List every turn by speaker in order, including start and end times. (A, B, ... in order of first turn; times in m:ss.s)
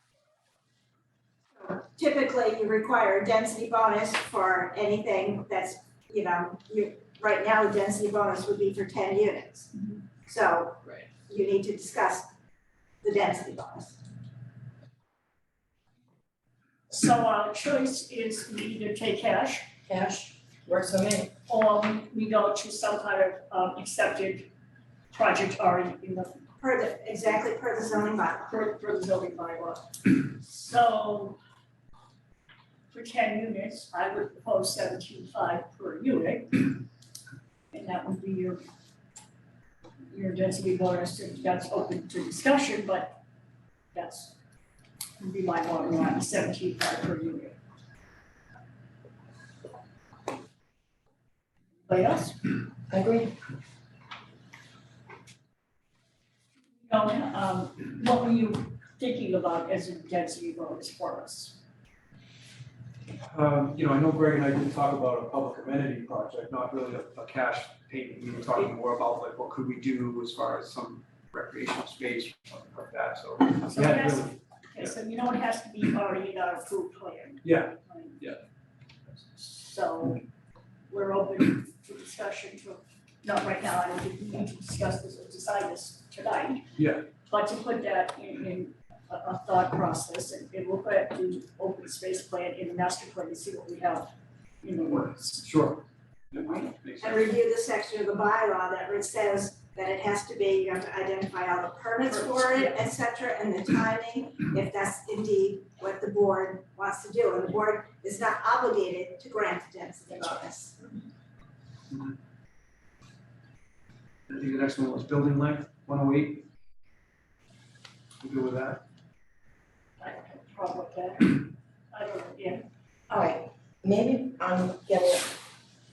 0:01.5-0:09.7 A
0:10.2-0:12.3 A
0:13.0-0:14.0 A
0:16.9-0:19.7 B
0:19.9-0:21.3 C
0:21.5-0:24.5 B
0:25.1-0:26.4 B
0:26.6-0:28.5 A
0:28.4-0:31.4 B
0:32.9-0:36.8 B
0:37.7-0:38.6 B
0:40.1-0:43.2 B
0:43.9-0:44.4 B
0:45.2-0:47.6 B
0:51.9-0:52.4 B
0:52.9-0:53.3 C
0:56.9-1:01.6 B
1:03.2-1:14.9 D
1:13.7-1:18.2 B
1:17.4-1:18.4 D
1:19.4-1:20.2 B
1:20.9-1:26.7 B
1:26.8-1:27.1 D
1:27.3-1:35.5 B
1:35.4-1:37.4 D
1:37.0-1:50.8 A
1:42.1-1:42.8 B
1:54.3-1:56.4 D
1:58.2-1:58.8 D
2:00.0-2:02.7 B
2:03.1-2:05.3 C